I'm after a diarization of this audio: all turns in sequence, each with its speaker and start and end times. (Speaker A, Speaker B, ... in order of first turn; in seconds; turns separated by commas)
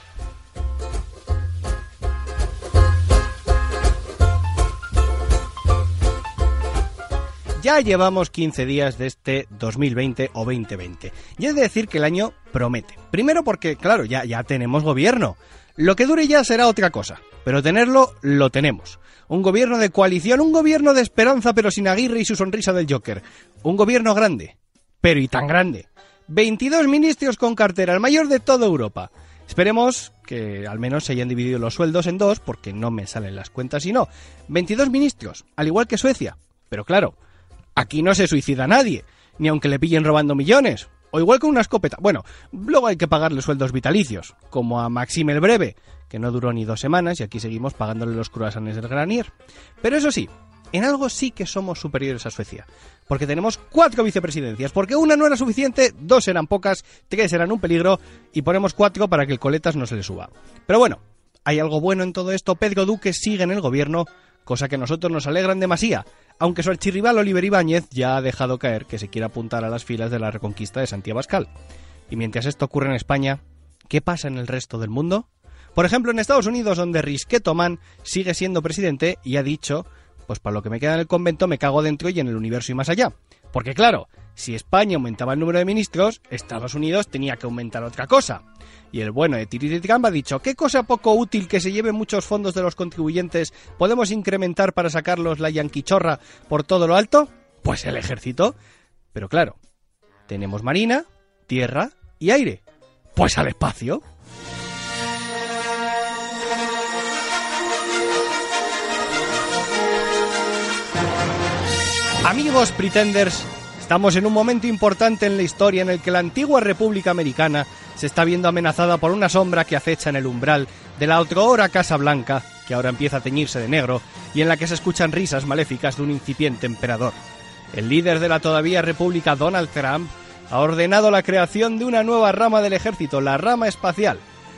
Speaker A: 7.6-37.1, Speaker A: 37.8-49.3, Speaker A: 49.8-71.5, Speaker A: 72.1-98.5, Speaker A: 99.1-99.6, Speaker A: 100.3-102.6, Speaker A: 103.2-104.0, Speaker A: 112.2-127.2, Speaker A: 127.7-134.2